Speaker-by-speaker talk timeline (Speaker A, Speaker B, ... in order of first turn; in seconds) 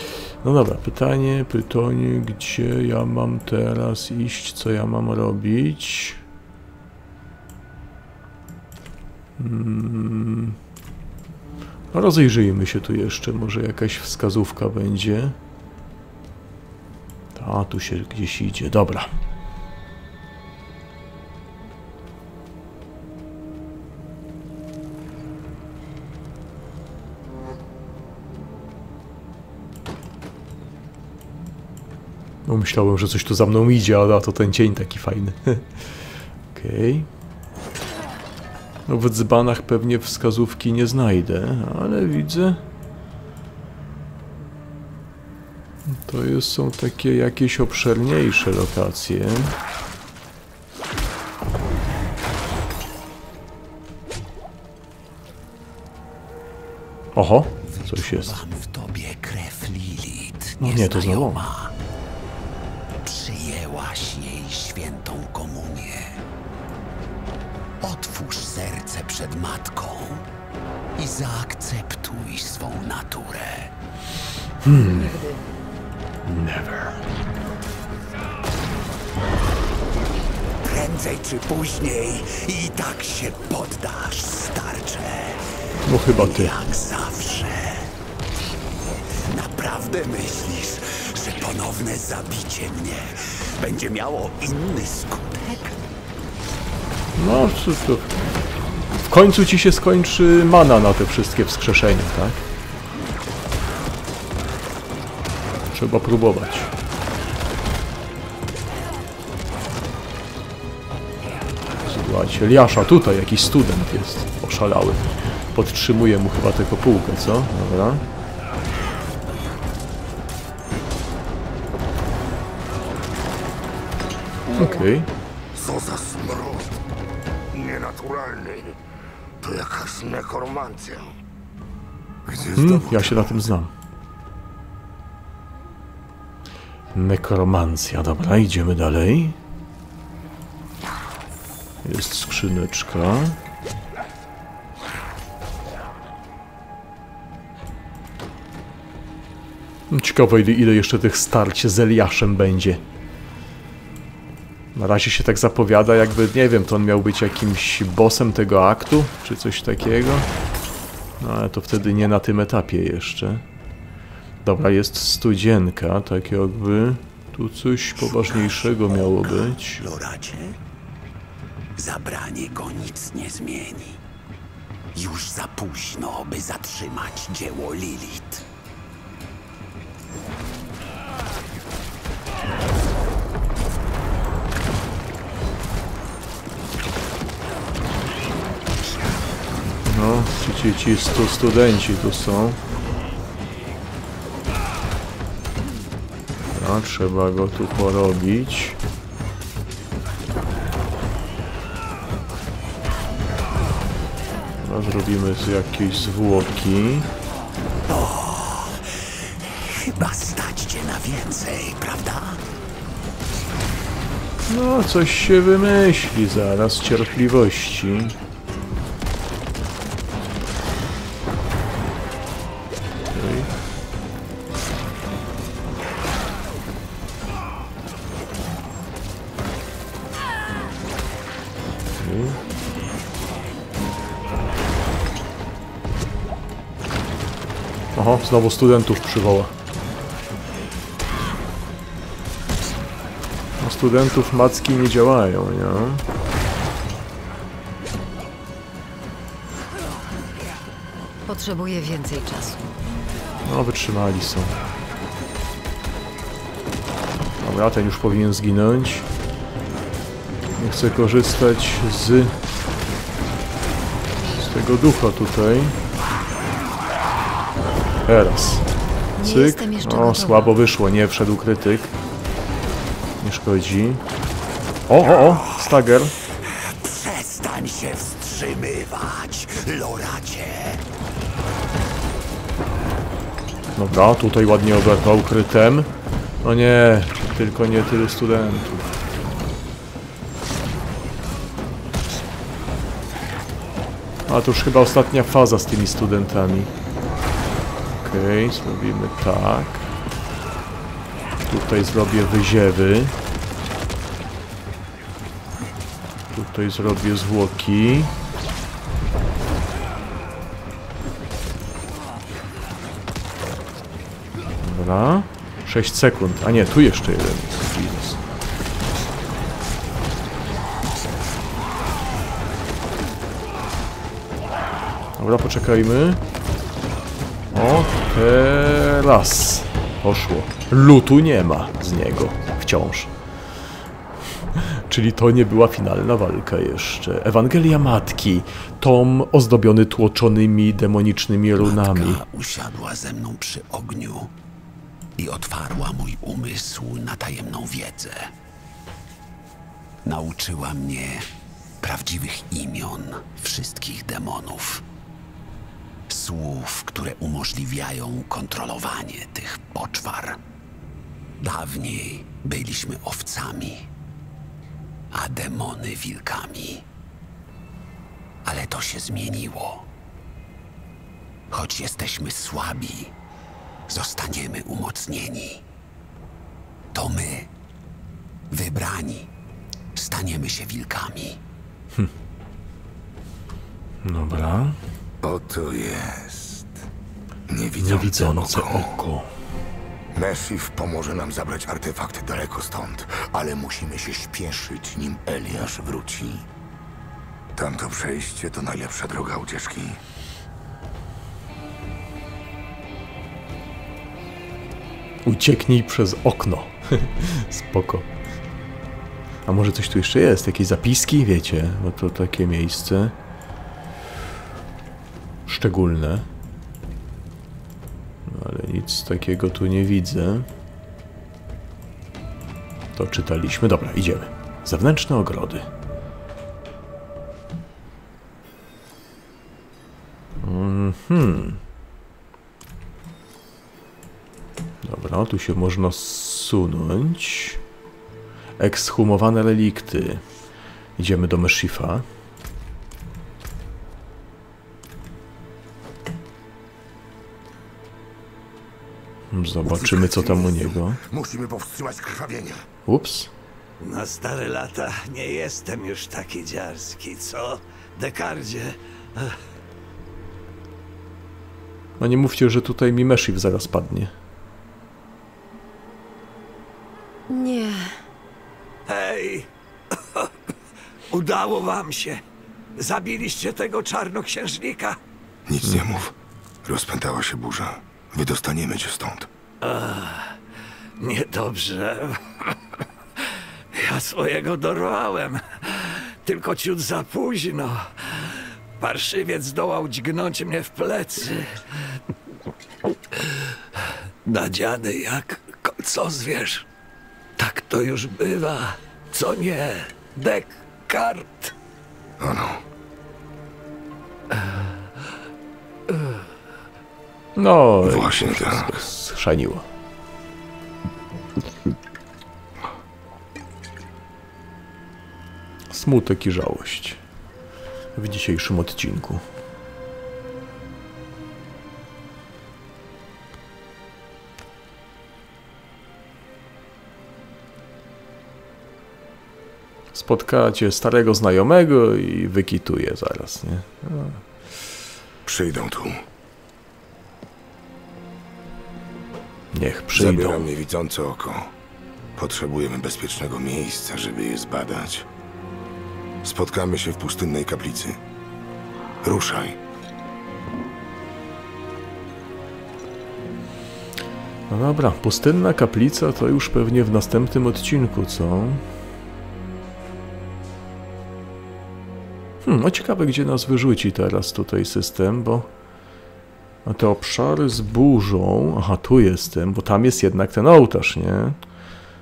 Speaker A: 0.4-6.2, 9.4-10.6, 11.9-15.3, 17.3-19.1, 32.5-35.8, 36.5-37.1, 38.9-42.6, 45.9-49.5, 57.1-58.4, 60.6-61.5, 74.6-75.2, 76.2-77.0, 85.8-86.5, 97.2-98.1, 99.1-102.5, 105.7-106.7, 111.8-118.0, 124.5-125.1, 132.6-133.7, 136.9-139.3, 141.8-143.4, 149.9-152.8, 154.8-160.3, 161.2-163.4, 164.4-169.8, 189.8-192.6, 196.5-198.8, 204.6-207.1, 214.5-218.1, 223.1-223.5, 232.0-232.4, 237.9-239.5, 243.6-246.0, 253.4-254.5, 257.4-259.1, 260.6-262.4, 264.4-265.8, 268.1-268.6, 269.2-271.9, 273.2-274.0, 274.9-276.1, 283.8-285.9, 286.4-288.9, 294.3-296.7, 298.0-299.9, 301.5-303.1, 306.3-308.1, 314.6-318.2, 325.2-326.2, 327.5-333.1, 334.6-342.2, 384.0-384.8, 387.8-389.3, 405.2-408.1, 409.4-413.1, 415.5-416.2, 418.3-420.5, 422.9-425.6, 430.4-431.6, 434.8-437.6, 438.6-440.2, 441.0-442.0, 449.3-451.0, 452.9-453.3, 462.0-464.1, 475.6-475.9, 507.4-509.6, 515.7-517.0, 518.0-519.2, 529.9-534.2, 539.5-540.5, 554.5-558.6, 562.4-565.5, 566.6-571.4
Speaker B: 57.6-61.7, 63.0-66.2, 67.8-70.2, 71.0-73.7, 80.6-85.4, 86.1-87.9, 89.2-95.7, 168.0-170.6, 171.8-174.0, 174.9-178.4, 207.9-212.4, 276.4-280.8, 341.6-344.3, 345.2-348.3, 350.0-351.3, 351.8-354.8, 356.1-360.4, 361.4-363.9, 365.1-366.8, 368.4-369.8, 371.5-373.1, 373.9-375.6, 376.9-377.5, 378.5-379.3, 379.9-381.4
Speaker C: 125.5-126.8, 127.5-128.8, 129.4-131.1, 132.2-133.5, 385.2-386.8, 387.5-389.0, 390.1-396.4, 397.5-400.0, 449.6-452.6, 475.5-476.1, 476.6-479.3, 502.2-502.6, 507.8-508.8, 535.2-536.0, 539.9-541.5, 542.1-545.0, 546.2-548.0, 549.0-549.5
Speaker D: 251.2-252.6, 269.2-270.5, 467.3-467.8
Speaker E: 453.8-459.4, 468.9-469.5, 471.1-472.2, 472.8-475.0, 479.6-480.3, 481.0-482.2, 483.7-487.9, 488.8-491.6, 494.2-496.6, 497.4-501.5, 504.4-504.6